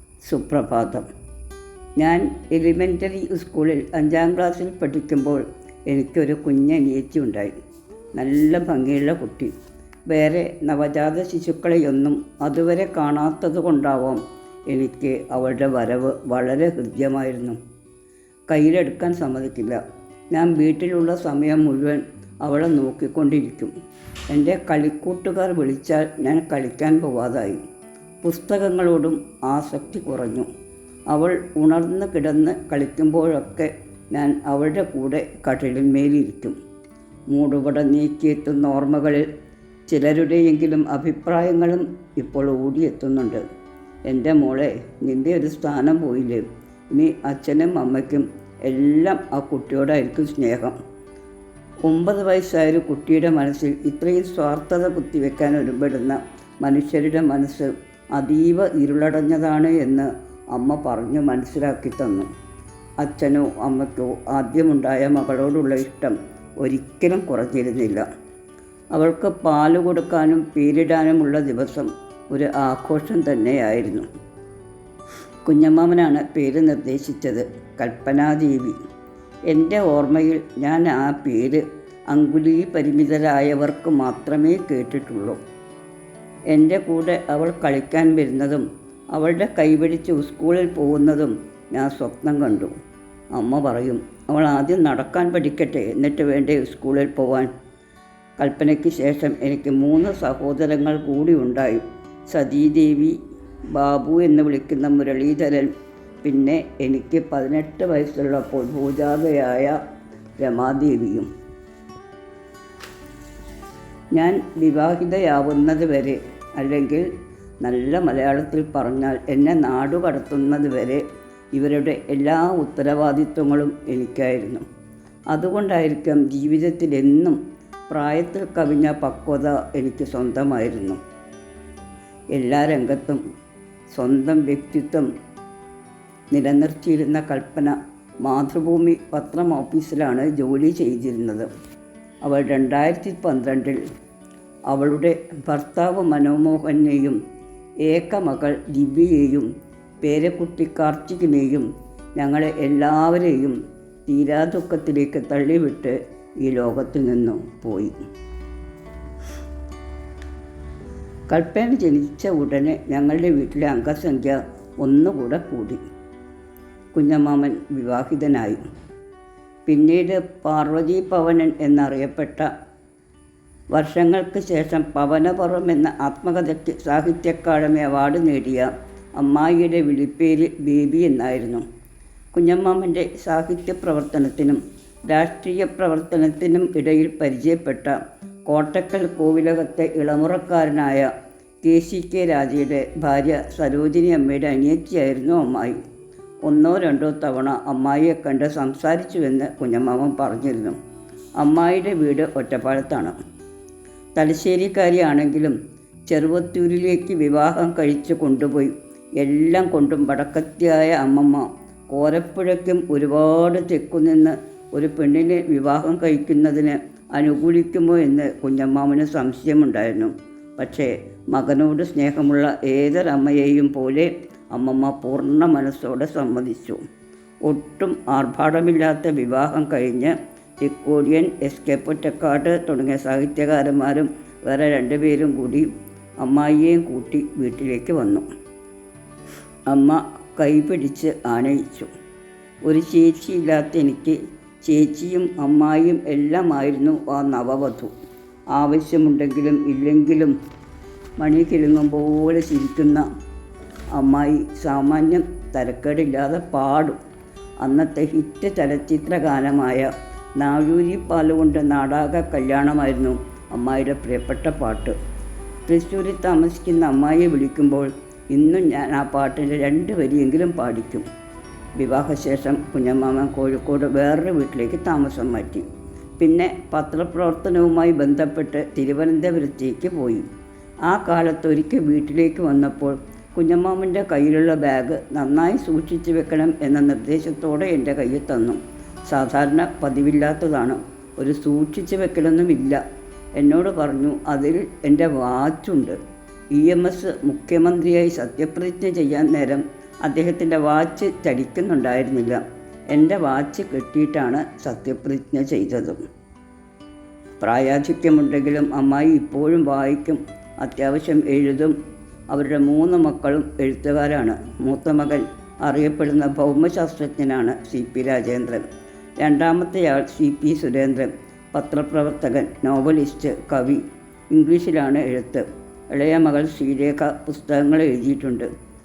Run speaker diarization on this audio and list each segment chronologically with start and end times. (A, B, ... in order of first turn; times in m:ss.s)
0:00.2-0:01.0 A
0:02.0-0:07.6 A
0:08.2-0:09.5 A
0:10.1-0:17.6 A
0:18.5-0:19.8 A
0:20.3-0:23.7 A
0:24.3-0:27.6 A
0:28.2-0:30.5 A
0:31.1-0:36.6 A
0:37.3-0:39.3 A
0:39.9-0:43.4 A
0:44.1-0:50.8 A
0:51.8-1:02.3 A
1:03.0-1:08.0 A
1:08.9-1:14.0 A
1:15.4-1:18.8 A
1:19.5-1:25.4 A
1:26.5-1:32.7 A
1:33.3-1:37.5 A
1:38.4-1:43.2 A
1:43.7-1:45.7 A
1:46.2-1:49.8 A
1:50.4-1:51.3 A
1:54.1-1:57.1 A
1:57.6-2:01.0 A
2:01.5-2:04.6 A
2:05.3-2:07.4 A
2:07.9-2:11.0 A
2:12.3-2:13.2 A
2:13.9-2:15.1 A
2:16.3-2:21.5 A
2:22.2-2:23.8 A
2:24.7-2:27.2 A
2:27.8-2:29.5 A
2:30.0-2:37.9 A
2:41.3-2:45.8 A
2:46.9-2:48.6 A
2:49.7-2:52.5 A
2:53.7-3:01.6 A
3:02.3-3:11.1 A
3:11.6-3:15.8 A
3:16.5-3:20.8 A
3:21.4-3:23.1 A
3:24.2-3:25.6 A
3:26.1-3:46.8 A
3:47.4-3:55.7 A
3:56.2-3:58.2 A
3:59.7-4:01.9 A
4:02.6-4:07.9 A
4:08.5-4:10.3 A
4:11.2-4:13.0 A
4:13.9-4:17.0 A
4:17.6-4:24.9 A
4:25.7-4:31.0 A
4:31.8-4:35.6 A
4:36.2-4:40.3 A
4:40.9-4:52.8 A
4:53.4-4:56.0 A
4:56.5-5:06.0 A
5:07.4-5:11.7 A
5:12.3-5:18.6 A
5:19.2-5:28.5 A